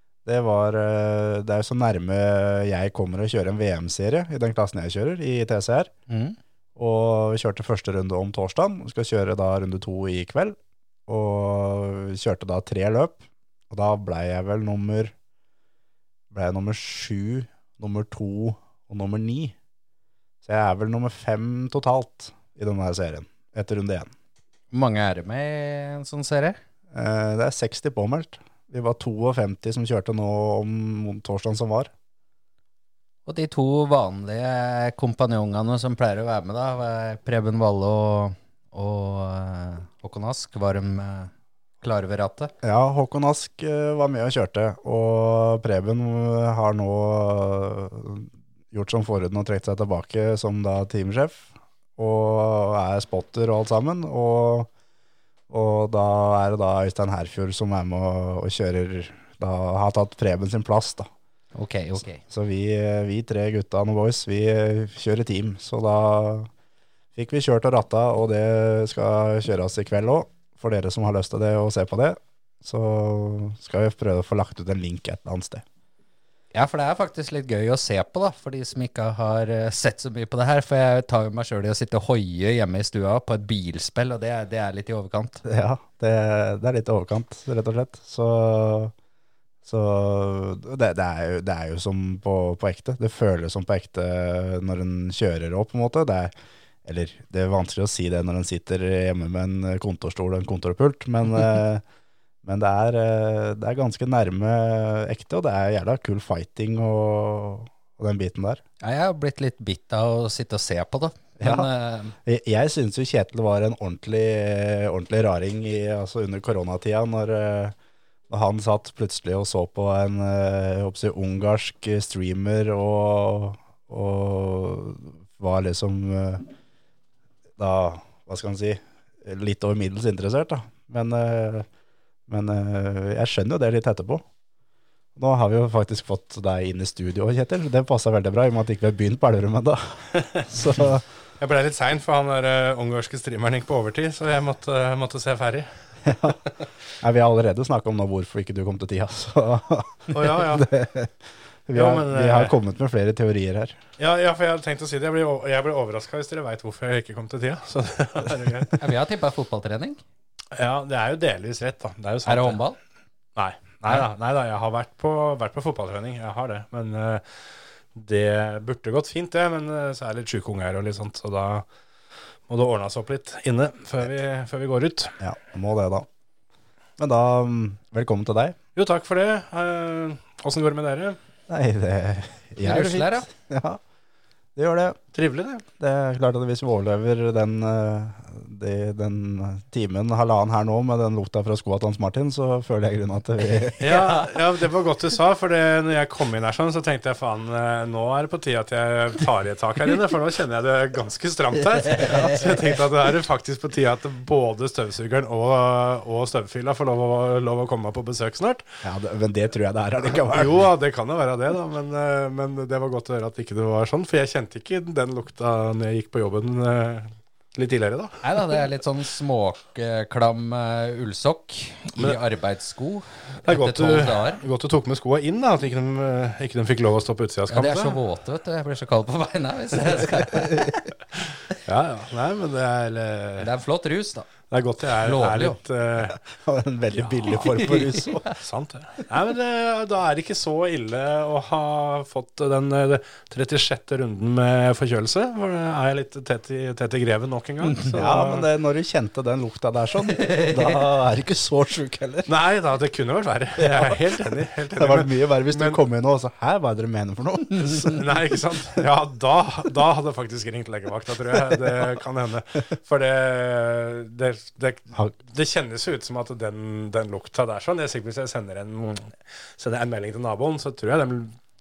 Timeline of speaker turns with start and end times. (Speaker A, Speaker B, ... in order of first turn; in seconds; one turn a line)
Speaker A: 0.2-5.9
Speaker B: 6.1-6.4
Speaker A: 6.8-15.1
Speaker A: 16.3-19.6
Speaker A: 20.4-24.1
Speaker B: 24.7-26.6
Speaker A: 26.9-31.9
Speaker B: 33.3-42.5
Speaker A: 42.6-54.7
Speaker A: 55.5-61.1
Speaker B: 61.6-62.2
Speaker A: 62.2-66.5
Speaker A: 67.2-75.6
Speaker B: 76.5-85.4
Speaker A: 85.5-88.9
Speaker A: 89.7-96.3
Speaker A: 96.8-101.8
Speaker A: 102.5-108.6
Speaker B: 108.8-112.1
Speaker A: 111.4-111.7
Speaker A: 112.2-117.8
Speaker A: 118.3-126.5
Speaker A: 127.6-131.7
Speaker A: 132.3-134.2
Speaker A: 135.2-141.1
Speaker C: 141.4-145.7
Speaker A: 146.1-146.4
Speaker A: 147.0-151.1
Speaker C: 150.1-150.7
Speaker A: 151.7-153.8
Speaker C: 151.7-152.6
Speaker C: 154.0-158.8
Speaker B: 158.8-160.0
Speaker C: 160.5-162.6
Speaker B: 162.3-162.8
Speaker C: 163.4-167.2
Speaker C: 167.9-171.7
Speaker C: 172.5-175.2
Speaker A: 175.2-176.1
Speaker A: 177.0-178.6
Speaker C: 178.8-181.2
Speaker A: 181.5-183.8
Speaker B: 182.6-183.3
Speaker A: 184.6-185.0
Speaker C: 185.1-185.7
Speaker A: 185.8-193.9
Speaker C: 193.8-208.7
Speaker A: 208.8-210.7
Speaker C: 210.3-218.2
Speaker B: 218.2-224.4
Speaker C: 223.4-228.0
Speaker B: 227.5-230.9
Speaker C: 231.5-233.5
Speaker B: 233.4-234.3
Speaker C: 234.5-236.2
Speaker B: 235.0-235.6
Speaker A: 236.4-238.3
Speaker C: 236.9-237.6
Speaker C: 238.3-248.5
Speaker A: 247.9-252.3
Speaker C: 252.3-255.8
Speaker A: 253.6-254.0
Speaker A: 254.7-258.0
Speaker C: 257.6-271.4